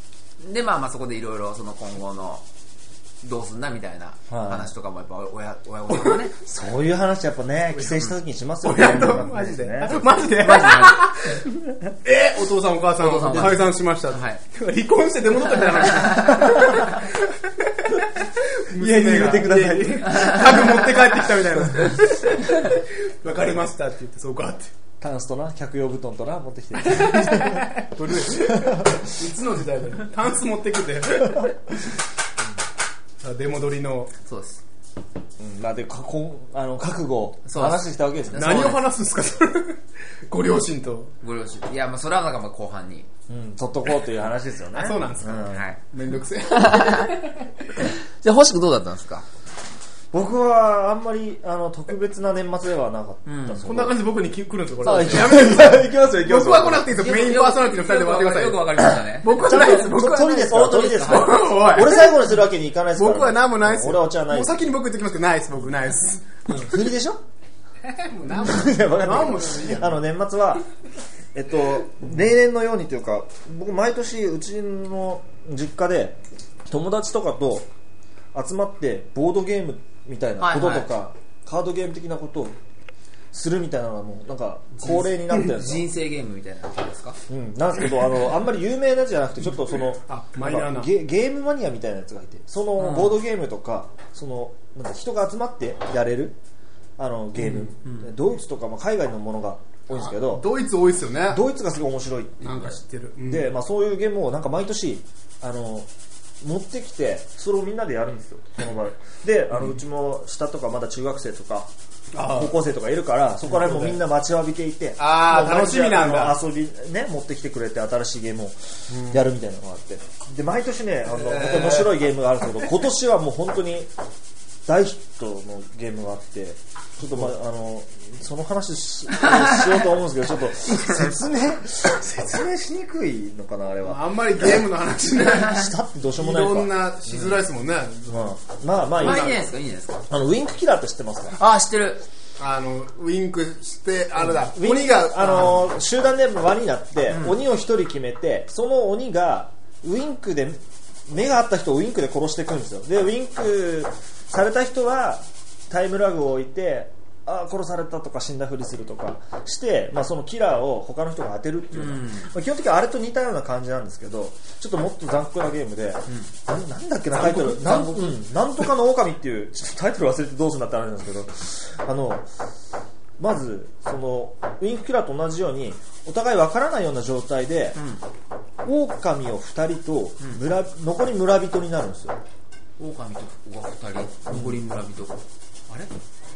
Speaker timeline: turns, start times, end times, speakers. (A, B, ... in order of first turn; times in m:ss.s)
0:00.4-0:02.4 A
0:03.2-0:06.3 A
0:04.3-0:04.7 B
0:06.4-0:10.1 B
0:07.7-0:08.1 C
0:08.6-0:11.4 C
0:10.4-0:11.3 A
0:12.0-0:24.7 C
0:13.0-0:14.4 A
0:15.8-0:16.8 A
0:18.8-0:20.6 B
0:20.0-0:20.6 A
0:25.0-0:27.7 B
0:27.0-0:31.5 C
0:28.5-0:29.0 B
0:33.2-0:34.1 C
0:34.2-0:34.6 A
0:35.4-0:38.8 B
0:37.4-0:38.8 A
0:38.3-0:41.1 C
0:41.2-0:43.1 A
0:43.3-0:45.6 B
0:44.8-0:47.4 C
0:45.5-0:45.8 A
0:46.5-0:47.2 A
0:47.8-0:49.2 A
0:50.1-0:54.0 B
0:53.2-0:53.6 A
0:53.6-1:02.2 C
0:54.8-0:56.9 B
0:56.9-1:01.6 A
0:59.4-1:04.6 B
1:03.0-1:06.4 C
1:06.5-1:07.2 B
1:07.8-1:10.0 C
1:08.3-1:10.6 B
1:11.3-1:17.7 B
1:18.3-1:22.6 B
1:20.4-1:20.9 A
1:23.3-1:25.8 B
1:24.8-1:27.2 A
1:27.3-1:36.4 B
1:30.0-1:30.9 C
1:32.8-1:33.2 A
1:37.0-1:40.4 B
1:37.4-1:37.7 C
1:39.9-1:41.4 C
1:41.3-1:45.9 B
1:42.4-1:43.5 C
1:46.4-1:51.7 B
1:52.1-1:52.6 C
1:52.3-1:58.6 B
1:53.5-1:54.0 C
1:55.0-1:56.4 C
1:58.9-1:59.2 C
1:59.1-2:03.9 B
2:01.1-2:02.0 C
2:04.6-2:14.6 B
2:09.2-2:09.8 A
2:10.7-2:11.1 A
2:13.8-2:19.4 C
2:15.4-2:16.7 B
2:18.1-2:19.4 B
2:19.0-2:20.0 A
2:20.1-2:21.4 B
2:21.3-2:22.0 A
2:22.4-2:25.6 C
2:24.2-2:52.2 B
2:27.1-2:27.4 A
2:41.7-2:42.3 A
2:47.1-2:48.2 A
2:53.2-2:57.8 B
2:57.8-2:58.0 A
2:58.6-3:02.2 B
3:02.8-3:05.9 A
3:04.3-3:04.6 B